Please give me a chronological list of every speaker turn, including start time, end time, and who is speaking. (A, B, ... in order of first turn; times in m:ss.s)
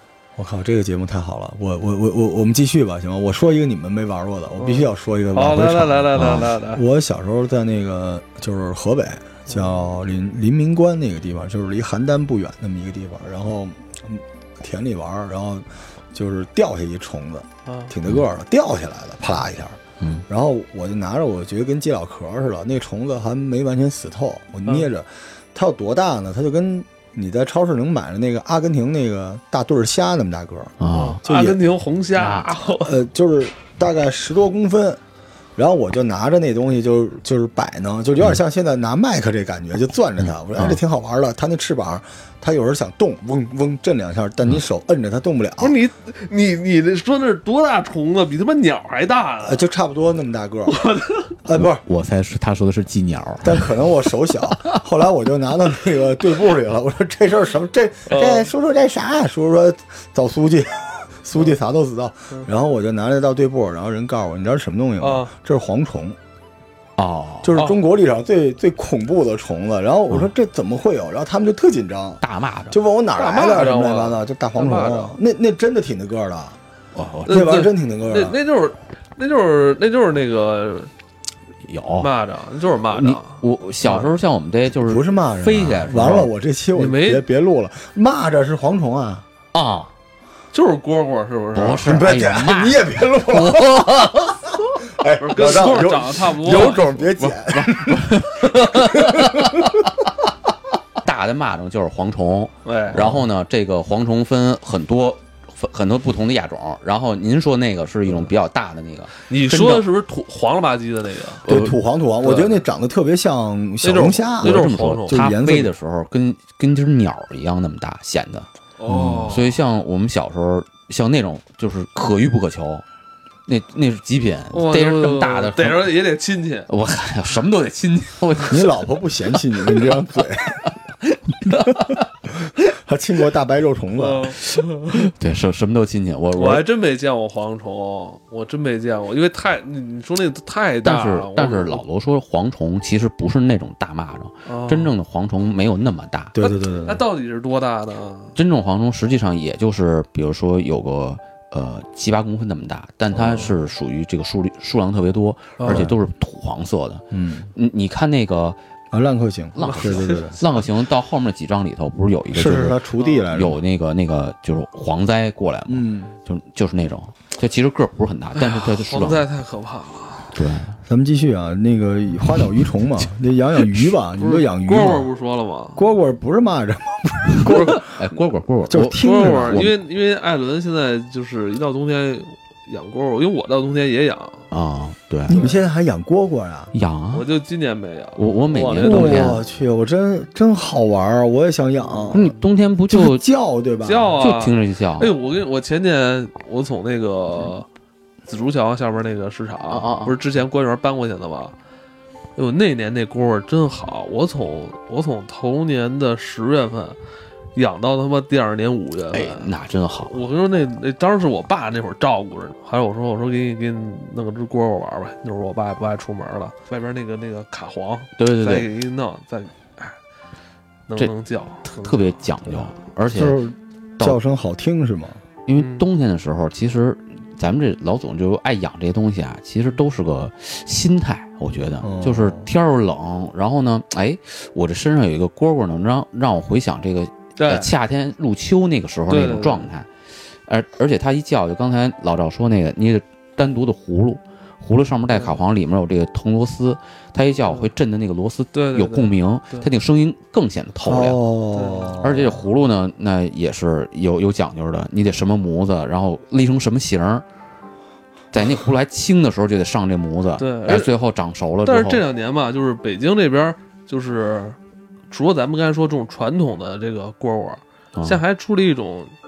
0:00.4-0:31.6 A
0:04.6-0:06.8 B
0:06.2-0:06.4 C
0:17.6-0:17.9 B
0:20.0-0:20.2 C
0:30.8-0:31.2 C
0:30.9-0:33.0 B
0:32.2-0:32.5 C
0:32.8-0:35.0 A
0:35.6-0:45.8 A
0:45.6-0:49.6 B
0:49.4-0:50.8 A
0:50.7-0:51.4 B
0:51.4-0:51.8 A
0:51.6-0:53.7 C
0:53.4-1:06.2 A
0:58.1-0:58.5 B
1:05.0-1:05.3 B
1:07.0-1:07.6 C
1:07.4-1:16.6 A
1:12.2-1:12.8 C
1:13.2-1:15.1 B
1:16.9-1:17.4 C
1:17.3-1:18.4 A
1:17.3-1:20.9 B
1:21.6-1:22.1 C
1:22.0-1:24.1 B
1:22.9-1:26.3 C
1:24.8-1:29.2 A
1:26.7-1:27.2 B
1:29.5-1:29.9 C
1:30.5-1:32.0 B
1:31.5-1:34.6 C
1:31.8-1:34.1 A
1:34.9-1:39.9 A
1:35.2-1:36.9 B
1:36.6-1:39.7 C
1:41.0-1:49.8 C
1:42.6-1:43.2 B
1:49.3-1:51.5 B
1:51.5-1:51.8 C
1:51.5-1:55.7 A
1:52.2-1:52.6 B
1:53.8-1:55.2 B
1:54.4-2:02.8 C
1:58.8-1:59.6 B
1:58.9-1:59.3 A
2:03.5-2:06.0 C
2:04.5-2:06.7 B
2:06.7-2:08.8 C
2:08.5-2:10.7 A
2:09.4-2:10.0 C
2:10.7-2:12.0 C
2:12.4-2:14.3 A
2:14.0-2:15.1 B
2:14.9-2:16.6 C
2:16.4-2:21.8 B
2:20.8-2:26.4 C
2:24.4-2:24.9 B
2:26.3-2:27.0 A
2:26.4-2:28.4 B
2:28.4-2:38.6 C
2:33.2-2:33.5 A
2:35.6-2:35.9 B
2:35.7-2:36.0 A
2:37.1-2:37.5 A
2:38.9-2:40.4 A
2:39.5-2:49.2 C
2:39.6-2:40.6 B
2:42.3-2:43.6 A
2:45.7-2:46.1 A
2:48.3-2:50.3 B
2:50.3-2:50.8 C
2:50.8-2:55.1 A
2:54.2-2:55.8 B
2:55.8-2:58.0 A
2:57.4-2:57.8 B
2:57.8-2:59.7 C
2:58.7-2:59.7 A
2:58.9-3:04.4 B
3:04.5-3:05.4 C
3:05.3-3:06.7 A
3:05.3-3:05.6 B
3:06.7-3:07.3 C
3:07.1-3:09.4 B
3:08.2-3:09.4 C
3:08.8-3:12.4 A
3:12.1-3:13.2 C
3:12.9-3:14.2 A
3:13.8-3:17.7 B
3:14.2-3:15.1 C
3:18.3-3:21.5 B
3:19.7-3:20.2 C
3:22.4-3:27.0 B
3:27.5-3:29.5 B
3:29.1-3:30.2 C
3:30.1-3:40.0 B
3:38.2-3:38.7 C
3:40.9-3:42.6 B
3:41.7-3:43.4 C
3:43.1-3:45.2 A
3:45.5-3:59.9 C
3:45.5-3:45.8 B
3:51.8-3:52.5 A
3:57.4-3:57.7 B
3:59.1-3:59.7 B
4:00.4-4:11.2 C
4:05.1-4:05.4 B
4:08.5-4:09.7 B
4:10.8-4:12.4 A
4:11.5-4:12.0 B
4:12.0-4:17.2 C
4:18.3-4:22.0 C
4:20.4-4:20.9 B
4:21.6-4:24.6 B
4:25.1-4:29.1 B
4:28.0-4:28.2 C